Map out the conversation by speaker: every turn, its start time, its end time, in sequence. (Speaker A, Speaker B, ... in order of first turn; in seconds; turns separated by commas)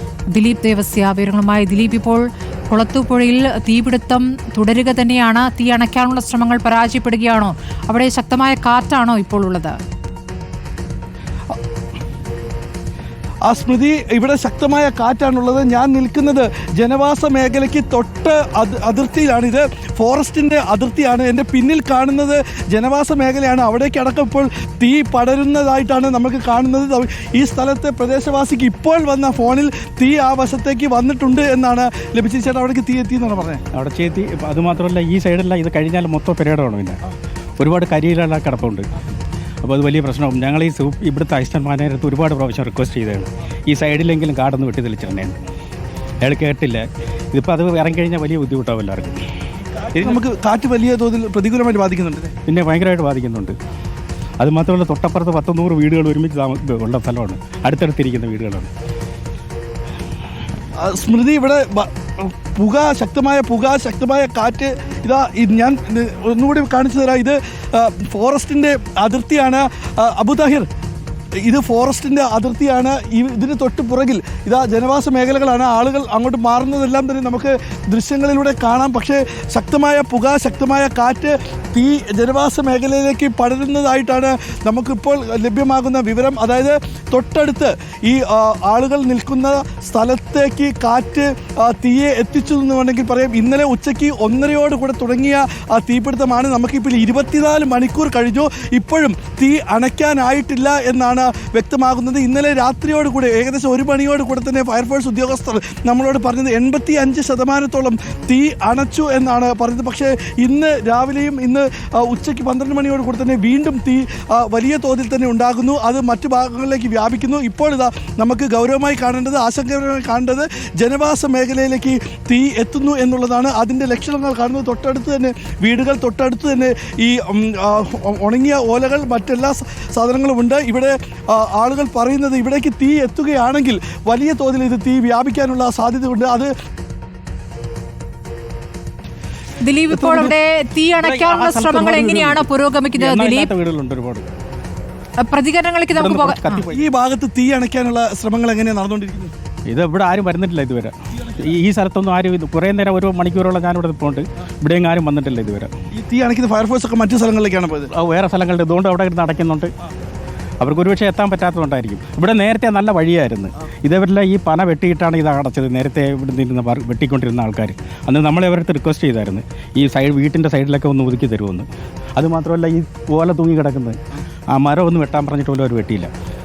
Speaker A: 0.3-9.8, Speaker B: 13.4-33.6, Speaker C: 33.7-37.0, Speaker C: 37.6-38.9, Speaker C: 39.6-45.4, Speaker C: 46.2-49.2, Speaker B: 49.9-52.3, Speaker C: 52.5-53.5, Speaker C: 54.4-58.7, Speaker B: 60.8-70.7, Speaker B: 71.4-136.5, Speaker A: 139.6-143.5, Speaker B: 139.9-140.3, Speaker C: 141.0-144.3, Speaker A: 145.2-146.6, Speaker C: 145.9-146.8, Speaker B: 146.7-149.3, Speaker C: 149.7-155.7, Speaker B: 155.9-157.9, Speaker C: 157.9-159.7, Speaker C: 160.6-174.0, Speaker C: 174.5-176.1